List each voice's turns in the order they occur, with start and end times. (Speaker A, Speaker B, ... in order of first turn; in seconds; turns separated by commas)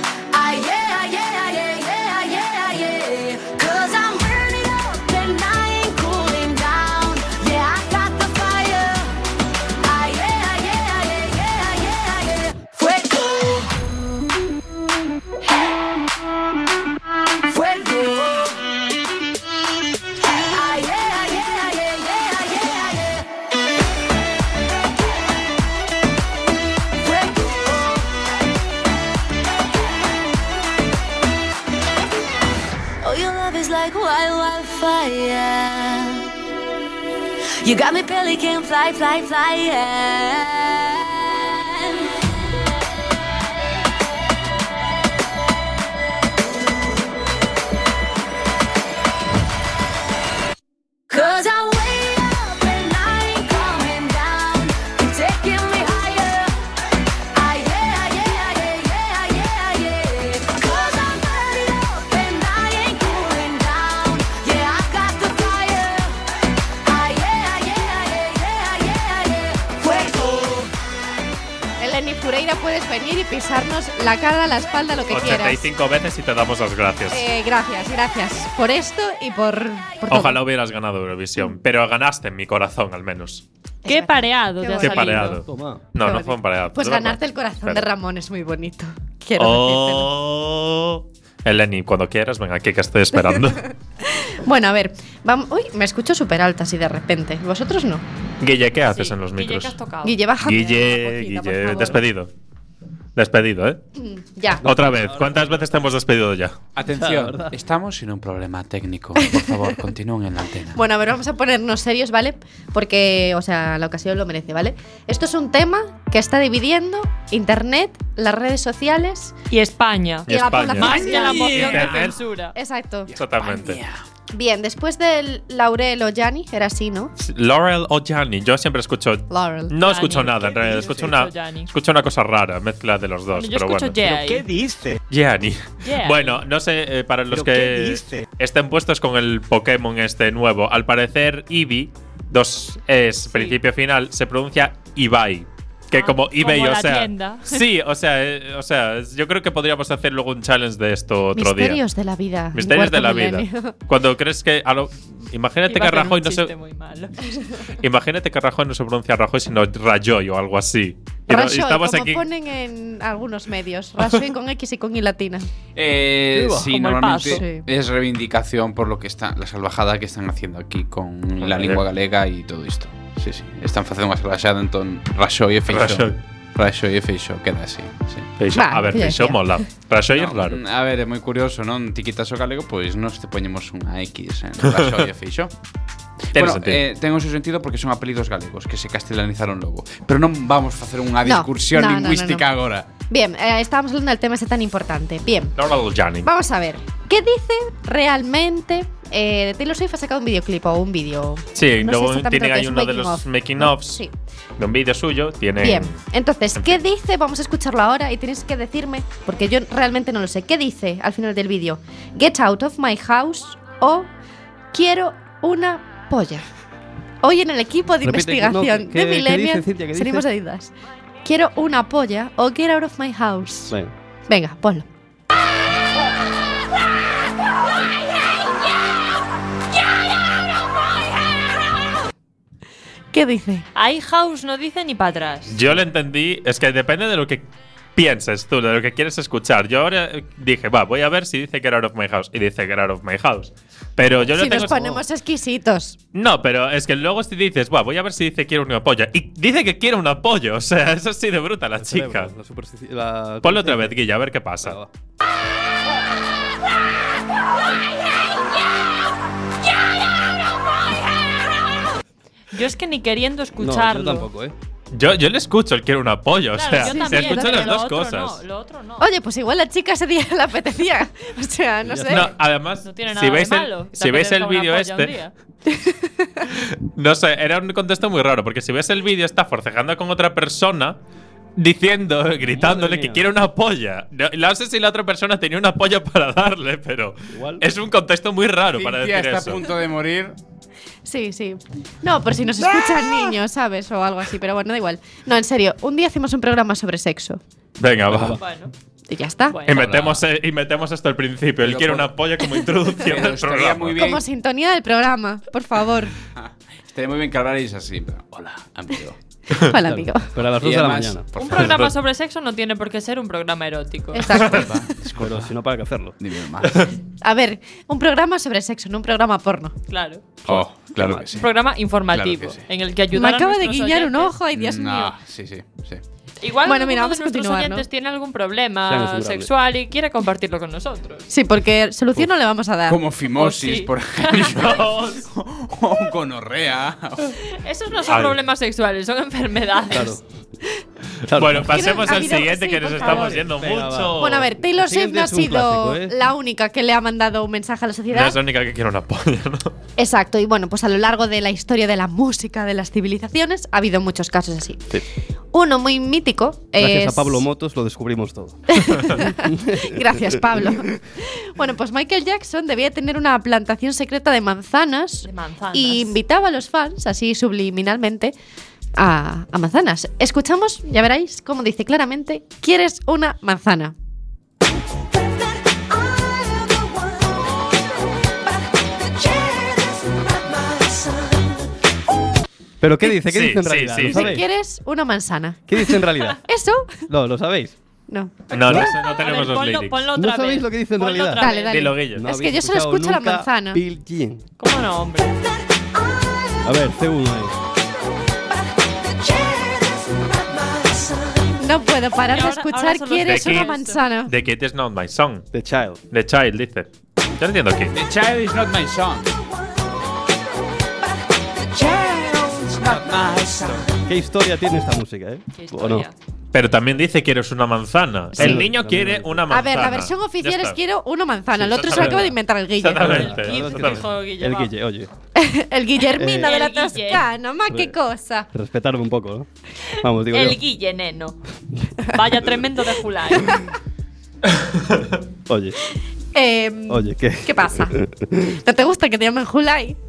Speaker A: 0.3-9.2, Speaker A: 9.8-13.8, Speaker A: 17.5-18.7, Speaker A: 20.5-23.3, Speaker A: 27.0-28.1, Speaker A: 33.0-36.3, Speaker A: 37.6-42.0, Speaker A: 51.1-56.7, Speaker A: 57.3-66.2, Speaker A: 66.8-70.7, Speaker B: 71.8-75.7, Speaker C: 75.1-77.2, Speaker B: 77.1-80.4, Speaker C: 80.1-83.4, Speaker B: 83.8-85.3, Speaker D: 83.9-85.4, Speaker C: 84.8-87.8, Speaker E: 85.5-85.8, Speaker B: 86.0-90.1, Speaker C: 89.4-93.6, Speaker B: 93.1-98.0, Speaker C: 98.4-99.8, Speaker D: 98.9-100.2, Speaker B: 100.0-102.0, Speaker C: 100.4-102.3, Speaker C: 103.2-103.8, Speaker B: 104.0-104.6, Speaker E: 104.6-105.5, Speaker C: 104.6-106.5, Speaker F: 106.8-110.8, Speaker E: 106.9-107.5, Speaker B: 109.2-109.8, Speaker B: 110.7-119.3, Speaker D: 119.5-122.5, Speaker C: 120.3-122.2, Speaker B: 120.3-123.1, Speaker F: 120.9-121.8, Speaker F: 123.1-124.0, Speaker C: 123.2-123.8, Speaker B: 124.3-127.1, Speaker C: 127.2-134.0, Speaker B: 129.3-129.7, Speaker D: 129.8-131.7, Speaker D: 133.3-134.5, Speaker E: 134.6-134.9, Speaker C: 135.1-151.8, Speaker D: 135.8-136.4, Speaker E: 137.4-137.7, Speaker D: 143.3-143.6, Speaker D: 145.9-147.6, Speaker B: 151.3-153.8, Speaker C: 152.5-156.5, Speaker D: 155.7-157.2, Speaker C: 157.8-162.3, Speaker B: 161.3-165.5, Speaker F: 165.8-178.3, Speaker E: 166.3-166.7, Speaker D: 166.7-167.4, Speaker B: 167.3-167.7, Speaker C: 171.4-171.8, Speaker C: 175.7-176.2, Speaker C: 178.4-180.6, Speaker B: 178.5-179.7, Speaker F: 180.1-185.5, Speaker C: 184.6-185.1, Speaker C: 186.3-186.8, Speaker F: 186.3-192.9, Speaker B: 191.2-192.4, Speaker B: 193.1-195.6, Speaker C: 195.6-196.3, Speaker B: 196.2-204.1, Speaker C: 201.6-204.0, Speaker C: 204.6-206.0, Speaker B: 205.6-214.1, Speaker B: 214.7-216.4, Speaker B: 217.2-223.8, Speaker E: 218.0-220.2, Speaker B: 224.3-224.9, Speaker B: 233.1-233.7, Speaker D: 233.8-235.6, Speaker C: 235.5-237.4, Speaker C: 237.9-244.8, Speaker E: 244.0-245.0, Speaker B: 244.4-246.0, Speaker C: 246.1-252.3, Speaker E: 251.8-253.9, Speaker C: 253.4-254.8, Speaker E: 254.6-254.9, Speaker D: 262.5-264.3, Speaker E: 263.6-264.5, Speaker C: 264.9-268.4, Speaker D: 266.6-269.1, Speaker B: 266.9-267.7, Speaker B: 269.0-272.3, Speaker E: 271.8-272.2, Speaker C: 272.1-275.1, Speaker D: 272.8-275.3, Speaker B: 275.7-276.5, Speaker C: 276.5-281.0, Speaker C: 281.6-289.7, Speaker E: 282.4-283.2, Speaker E: 287.3-287.6, Speaker F: 288.7-290.4, Speaker B: 291.1-297.4, Speaker C: 297.8-298.4, Speaker E: 298.1-298.4, Speaker D: 298.4-298.7, Speaker B: 299.1-299.6, Speaker D: 299.5-299.8, Speaker C: 299.7-304.0, Speaker F: 299.7-300.2, Speaker F: 301.6-302.1, Speaker F: 302.9-304.2, Speaker B: 304.0-306.1, Speaker F: 306.4-309.2, Speaker B: 309.6-310.4, Speaker E: 309.8-311.3, Speaker F: 310.4-311.8, Speaker D: 311.4-314.4, Speaker C: 311.5-311.9, Speaker B: 314.1-314.9, Speaker F: 314.4-315.6, Speaker E: 315.2-316.2, Speaker F: 316.2-316.9, Speaker C: 316.6-316.9, Speaker B: 317.2-319.8, Speaker D: 319.9-320.2, Speaker E: 320.4-321.2, Speaker F: 320.5-321.5, Speaker D: 321.3-324.4, Speaker F: 322.1-322.6, Speaker B: 323.1-325.1, Speaker F: 324.5-326.0, Speaker D: 326.4-331.3, Speaker B: 326.6-327.9, Speaker E: 328.9-329.5, Speaker B: 331.3-333.0, Speaker F: 332.9-337.4, Speaker D: 333.4-334.5, Speaker C: 334.4-335.3, Speaker D: 337.4-340.2, Speaker C: 338.1-338.4, Speaker E: 339.9-340.2, Speaker E: 341.3-342.3, Speaker C: 341.4-344.5, Speaker B: 341.6-343.4, Speaker E: 342.9-346.1, Speaker B: 344.2-348.4, Speaker C: 348.1-349.7, Speaker B: 350.0-355.0, Speaker B: 355.5-357.5, Speaker E: 356.8-359.9, Speaker B: 358.7-368.4, Speaker D: 365.2-366.2, Speaker B: 369.0-373.9, Speaker A: 379.1-381.4, Speaker E: 382.8-384.4, Speaker C: 383.2-384.4, Speaker B: 384.1-387.0, Speaker E: 385.7-386.4, Speaker E: 387.1-387.8, Speaker B: 388.1-388.3, Speaker D: 388.5-391.9, Speaker C: 388.5-390.1, Speaker E: 388.6-388.9, Speaker E: 390.2-391.4, Speaker B: 391.4-393.8, Speaker C: 391.6-392.3, Speaker E: 392.1-394.4, Speaker D: 394.6-395.4, Speaker E: 396.7-397.6, Speaker A: 399.1-401.6, Speaker B: 401.6-404.3, Speaker D: 402.3-404.0, Speaker C: 403.2-403.7, Speaker C: 404.2-405.5, Speaker E: 405.5-406.0, Speaker C: 406.1-407.9, Speaker F: 407.9-409.3, Speaker A: 411.7-412.4, Speaker F: 411.8-413.9, Speaker E: 414.1-416.1, Speaker D: 415.6-416.1, Speaker C: 416.5-420.8, Speaker E: 418.4-419.4, Speaker B: 419.5-423.3, Speaker C: 421.6-424.1, Speaker E: 421.8-422.3, Speaker E: 423.0-425.1, Speaker D: 423.1-424.7, Speaker B: 425.4-428.5, Speaker E: 426.2-426.5, Speaker D: 426.4-427.2, Speaker E: 428.5-429.5, Speaker E: 430.0-430.6, Speaker D: 430.2-431.4, Speaker D: 432.1-433.6, Speaker C: 434.5-435.2, Speaker E: 435.5-435.8, Speaker B: 436.3-440.0, Speaker E: 436.9-438.5